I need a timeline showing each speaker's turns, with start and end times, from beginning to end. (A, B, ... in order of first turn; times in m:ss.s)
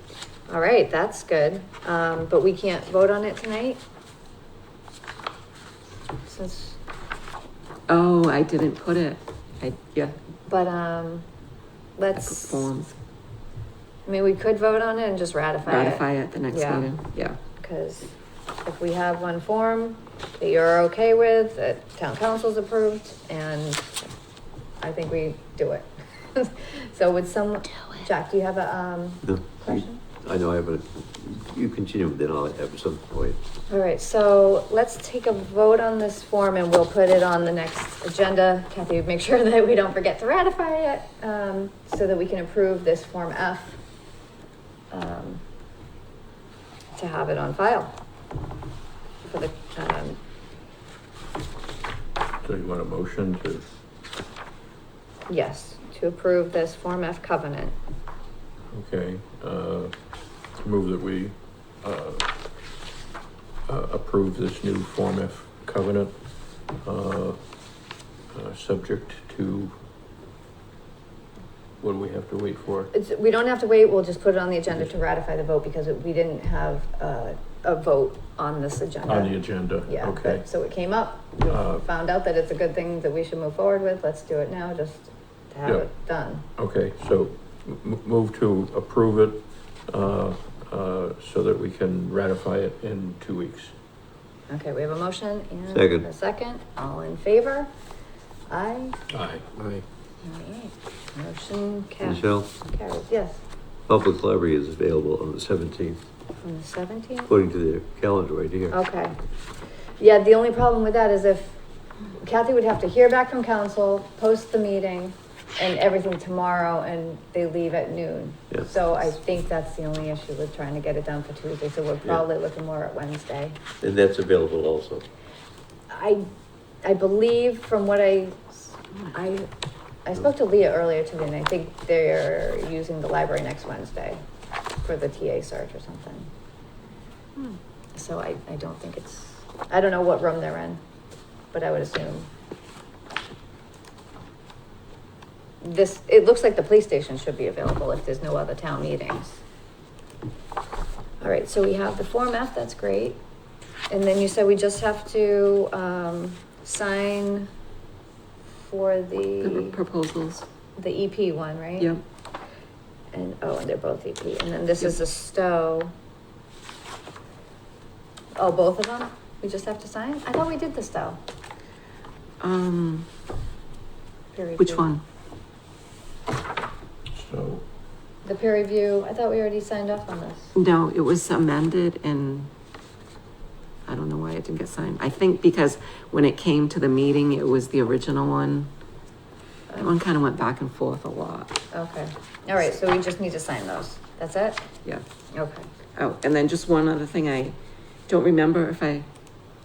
0:00.5-0:03.8 A
0:06.2-0:06.8 A
0:07.9-0:10.2 B
0:10.5-0:11.3 A
0:12.0-0:12.7 A
0:12.1-0:13.0 B
0:14.0-0:16.9 A
0:15.6-0:17.4 B
0:17.6-0:24.0 A
0:24.8-0:30.0 A
0:29.3-0:33.4 C
0:33.7-0:43.8 A
0:44.9-0:45.4 A
0:46.9-0:47.9 A
0:49.2-0:50.2 A
0:52.4-0:53.7 D
0:55.3-0:57.7 A
0:58.7-0:59.9 D
1:00.6-1:02.3 D
1:03.7-1:06.2 D
1:06.7-1:07.4 D
1:08.3-1:09.8 D
1:11.8-1:12.9 D
1:12.9-1:26.4 A
1:19.1-1:20.5 D
1:21.4-1:21.8 D
1:26.6-1:33.7 D
1:34.5-1:37.7 A
1:35.7-1:36.1 C
1:38.5-1:39.0 A
1:39.1-1:39.5 D
1:40.2-1:43.4 A
1:42.0-1:42.5 C
1:43.9-1:46.0 C
1:46.4-1:47.3 A
1:47.3-1:48.8 C
1:48.7-1:49.2 A
1:50.0-1:51.6 A
1:52.1-2:03.6 A
2:03.8-2:05.0 C
2:05.9-2:06.3 A
2:06.8-2:08.4 A
2:09.1-2:09.5 A
2:10.0-2:14.2 A
2:14.8-2:16.3 A
2:17.9-2:20.8 A
2:21.5-2:22.3 A
2:25.6-2:29.4 A
2:31.2-2:33.2 A
2:33.9-2:37.5 A
2:38.5-2:39.8 A
2:39.4-2:40.4 B
2:40.8-2:41.9 A
2:43.1-2:45.9 A
2:48.4-2:51.2 A
2:52.4-2:53.0 B
2:54.3-2:54.9 A
2:54.6-2:55.0 B
2:57.1-2:57.6 D
2:58.2-3:00.5 A
3:00.5-3:02.5 B
3:03.8-3:08.7 B
3:09.8-3:11.6 B
3:11.7-3:14.7 A
3:15.3-3:15.7 A
3:16.0-3:17.6 B
3:18.1-3:19.0 B